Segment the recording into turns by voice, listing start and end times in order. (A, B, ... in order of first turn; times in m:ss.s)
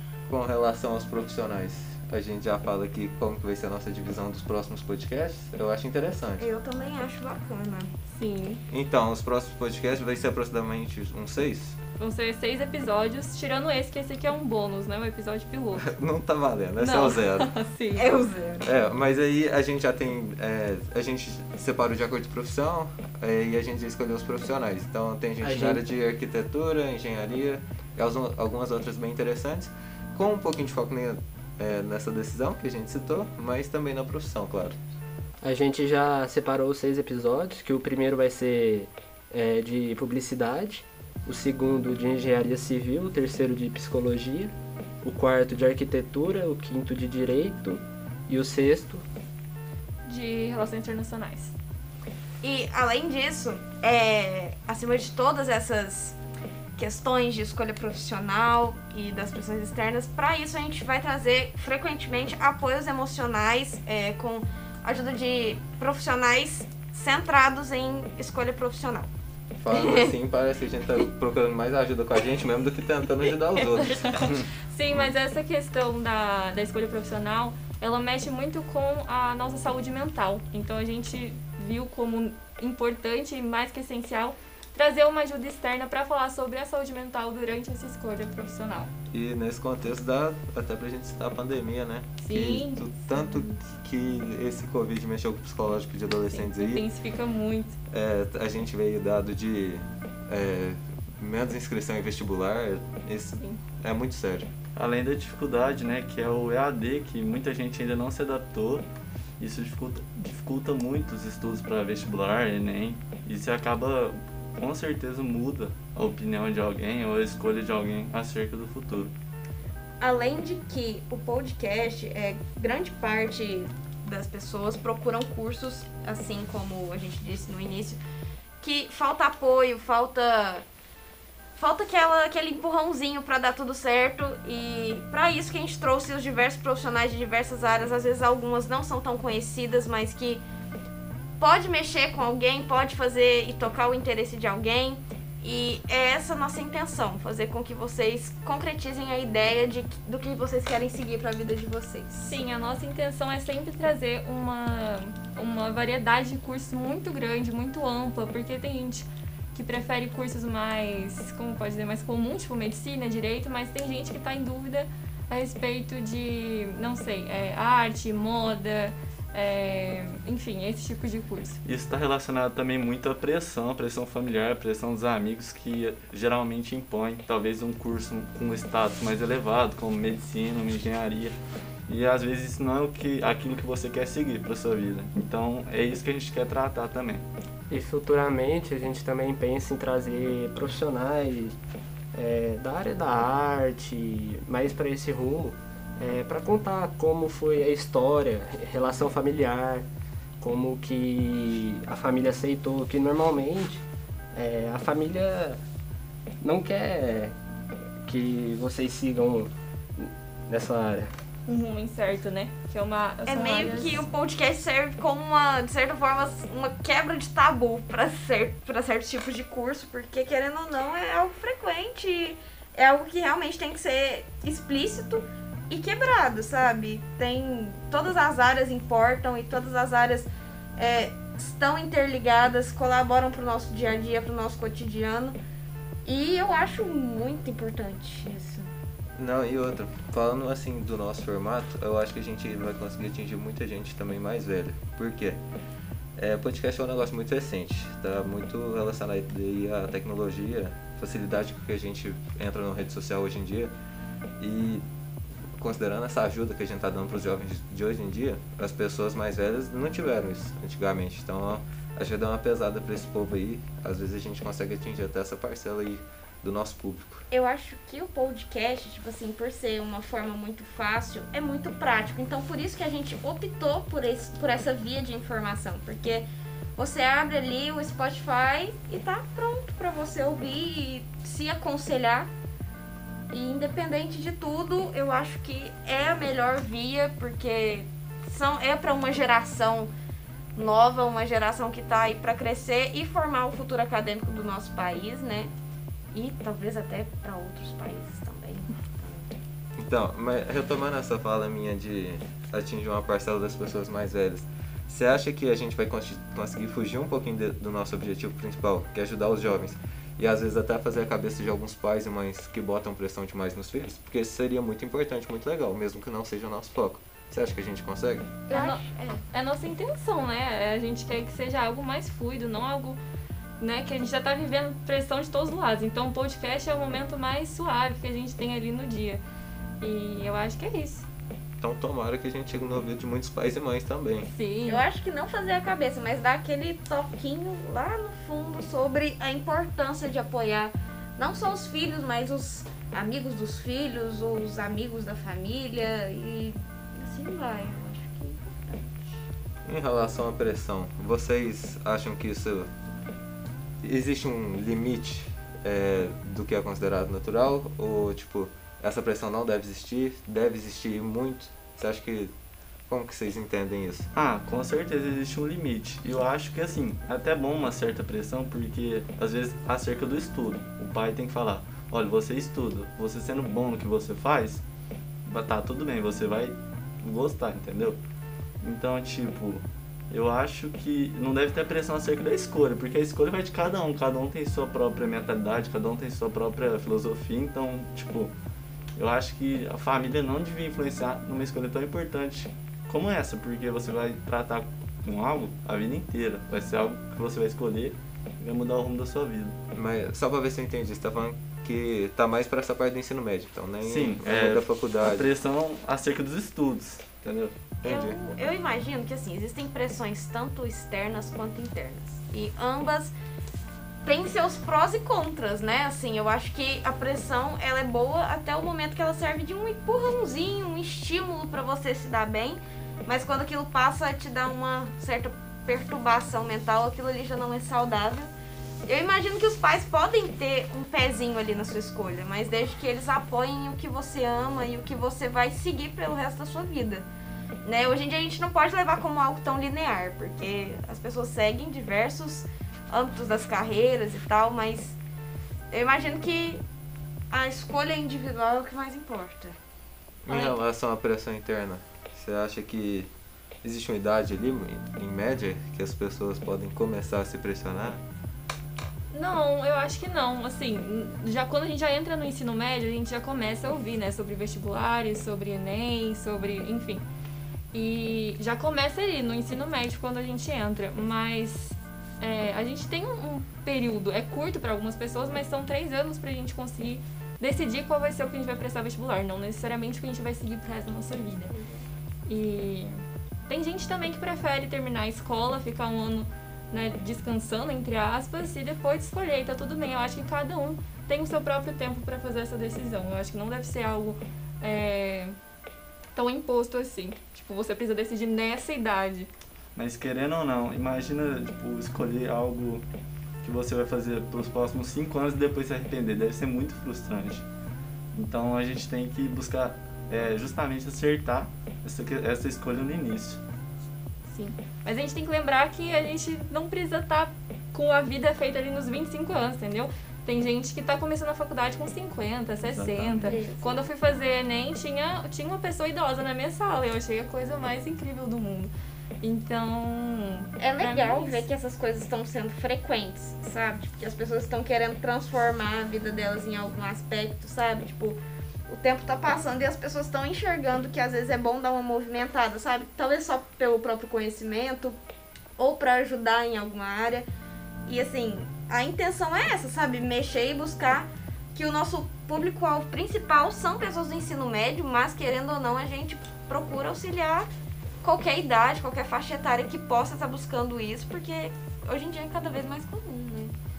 0:00.3-0:06.5 A
0:06.4-0:07.9 B
0:08.1-0:08.6 C
0:08.7-0:11.8 A
0:12.0-0:15.9 C
0:15.8-0:17.5 A
0:16.8-0:18.1 C
0:18.0-0:18.7 B
0:18.6-0:34.8 A
0:25.4-0:25.8 D
0:35.4-0:49.0 D
0:50.0-0:51.5 C
0:52.4-0:56.2 B
0:56.8-1:09.1 B
1:09.6-1:14.4 A
1:09.7-1:10.1 B
1:13.8-1:28.9 C
1:29.1-1:36.8 A
1:32.2-1:33.5 C
1:36.3-1:37.8 C
1:37.9-1:44.5 A
1:44.8-1:48.9 E
1:49.4-1:59.1 E
2:00.0-2:08.0 B
2:08.6-2:10.7 B
2:11.6-2:20.4 B
2:21.4-2:32.4 B
2:32.2-2:51.6 C
2:51.6-3:01.4 E
3:01.9-3:07.2 E
3:07.7-3:11.6 D
3:12.1-3:19.9 D
3:20.4-3:25.6 D
3:26.4-3:27.4 D
3:28.0-3:31.1 D
3:31.5-3:34.1 C
3:33.3-3:55.4 B
3:56.0-3:58.7 B
3:59.2-4:05.4 A
4:06.2-4:13.7 A
4:14.4-4:14.8 A
4:15.6-4:27.2 A
4:27.3-4:42.3 B
4:43.3-4:49.9 B
4:50.6-4:55.5 B
4:56.1-4:59.3 B
4:59.8-5:18.4 A
5:18.5-5:23.0 C
5:18.5-5:19.2 B
5:23.6-5:29.2 C
5:29.8-5:31.1 C
5:31.6-5:34.3 A
5:34.3-5:34.9 C
5:34.6-5:49.2 B
5:49.7-5:52.7 A
5:53.8-6:02.3 A
6:02.9-6:04.1 A
6:04.1-6:14.6 E
6:15.3-6:18.0 E
6:18.6-6:28.3 E
6:29.0-6:39.6 E
6:39.8-6:45.3 A
6:43.8-6:47.6 E
6:47.8-6:48.2 A
6:47.8-6:53.1 B
6:54.0-7:08.3 B
7:08.8-7:17.1 B
7:17.6-7:25.0 B
7:25.7-7:26.6 B
7:27.3-7:29.6 B
7:30.2-7:33.1 A
7:30.3-7:30.6 C
7:33.6-7:38.0 A
7:39.1-7:47.1 C
7:47.7-8:01.5 C
8:02.3-8:15.4 C
8:16.2-8:19.3 C
8:19.8-8:22.8 E
8:23.4-8:27.5 E
8:28.1-8:33.4 E
8:34.3-8:51.4 C
8:42.7-8:43.4 E
8:43.2-8:44.0 B
8:50.6-9:05.0 B
9:05.6-9:07.3 B
9:07.9-9:17.5 B
9:18.0-9:23.5 B